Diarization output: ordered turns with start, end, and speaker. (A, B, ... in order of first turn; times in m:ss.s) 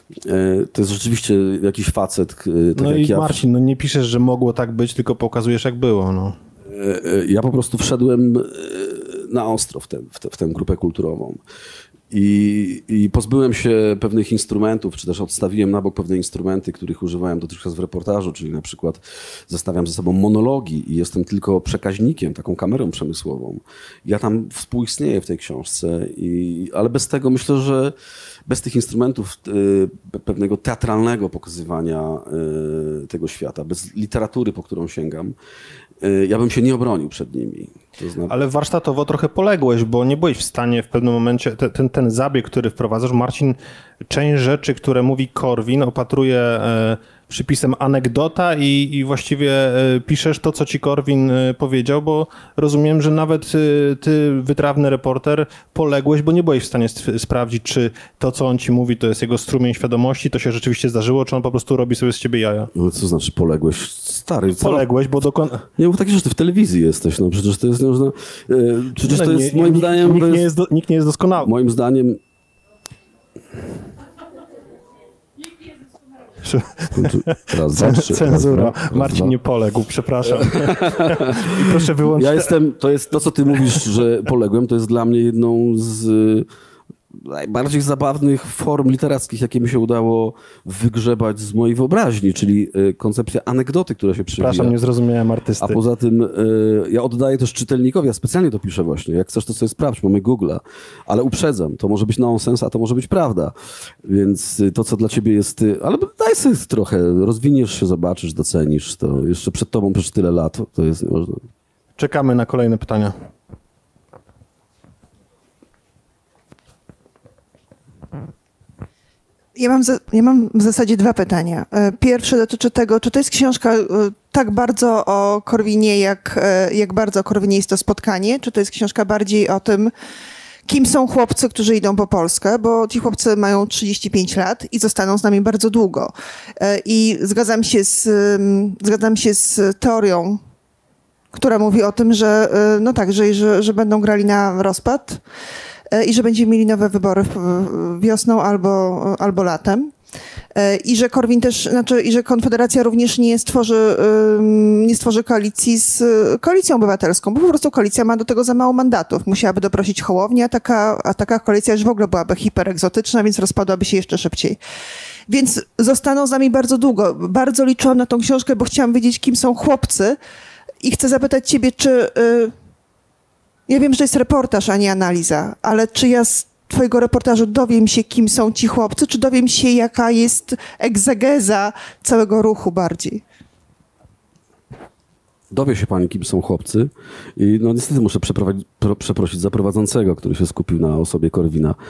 0:00.2-0:03.4 A
0:02.8-0:06.4 B
0:06.7-0:11.4 A
0:12.1-0:27.9 A
0:28.5-0:35.4 A
0:36.0-0:38.4 A
0:38.3-0:43.6 B
0:44.1-1:02.7 B
1:02.7-1:04.9 A
1:04.6-1:05.7 B
1:05.8-1:10.5 A
1:09.0-1:11.5 B
1:11.4-1:12.2 A
1:16.4-1:22.5 B
1:16.9-1:19.4 A
1:20.2-1:26.5 A
1:27.1-1:34.8 A
1:34.4-1:35.8 B
1:35.6-1:51.5 A
1:52.0-1:53.1 B
1:59.6-2:09.9 C
2:10.7-2:20.4 C
2:21.3-2:25.2 C
2:25.9-2:29.9 C
2:30.6-2:44.6 C
2:45.3-2:50.2 C
2:50.8-2:52.5 C
2:53.7-3:03.2 C
3:05.5-3:11.8 A